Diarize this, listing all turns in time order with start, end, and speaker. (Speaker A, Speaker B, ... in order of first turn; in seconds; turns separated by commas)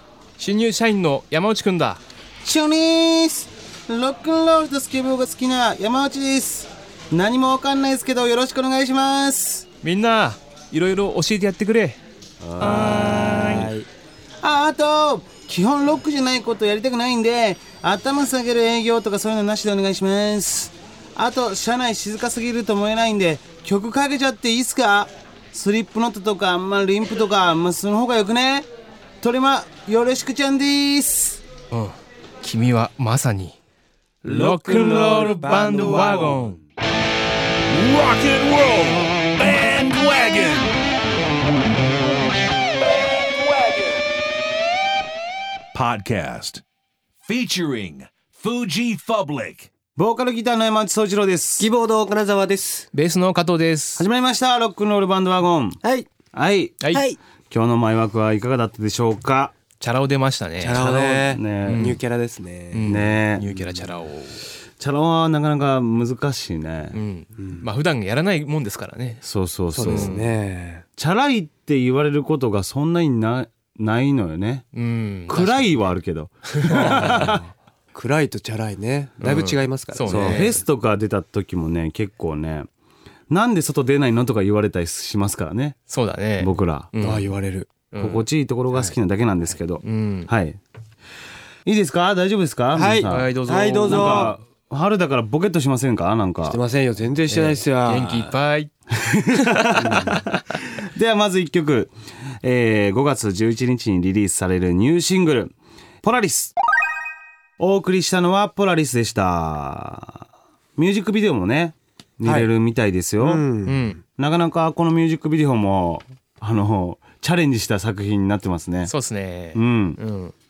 Speaker A: 0.4-2.0, Speaker B: 2.4-9.7, Speaker A: 9.8-12.0, Speaker B: 12.4-13.7, Speaker A: 12.6-13.7, Speaker C: 13.4-13.9, Speaker B: 14.4-28.7, Speaker B: 29.2-31.4, Speaker A: 31.7-33.6, Speaker A: 34.2-36.6, Speaker B: 34.2-36.5, Speaker D: 37.7-40.7, Speaker D: 43.0-44.0, Speaker D: 45.7-46.6, Speaker D: 47.2-49.7, Speaker B: 50.0-51.7, Speaker C: 51.6-52.9, Speaker A: 52.9-54.0, Speaker B: 54.0-55.8, Speaker C: 55.8-56.1, Speaker B: 56.3-56.8, Speaker C: 56.9-57.2, Speaker B: 57.5-59.5, Speaker A: 59.8-62.0, Speaker C: 60.6-62.9, Speaker B: 60.8-61.9, Speaker A: 62.7-64.4, Speaker B: 62.8-63.5, Speaker B: 64.8-67.0, Speaker A: 66.9-69.2, Speaker C: 67.3-67.7, Speaker B: 69.2-70.1, Speaker C: 69.7-70.8, Speaker A: 69.8-70.3, Speaker B: 71.0-74.7, Speaker A: 74.7-75.7, Speaker B: 75.3-77.4, Speaker A: 76.5-77.3, Speaker C: 76.7-80.6, Speaker A: 79.2-80.5, Speaker B: 80.1-82.7, Speaker B: 83.3-85.8, Speaker A: 85.9-87.2, Speaker B: 86.4-86.9, Speaker C: 87.0-87.7, Speaker A: 87.9-88.2, Speaker B: 88.0-90.6, Speaker A: 89.8-90.3, Speaker B: 91.7-96.6, Speaker C: 92.7-94.3, Speaker A: 93.0-94.3, Speaker C: 96.4-98.3, Speaker A: 97.3-98.7, Speaker B: 99.0-100.2, Speaker A: 99.4-100.2, Speaker C: 99.8-100.2, Speaker B: 100.8-106.5, Speaker B: 107.6-110.2, Speaker B: 110.8-113.4, Speaker C: 112.2-112.5, Speaker C: 113.2-114.0, Speaker A: 113.6-114.0, Speaker B: 114.2-118.9, Speaker A: 118.8-120.3, Speaker B: 119.5-120.0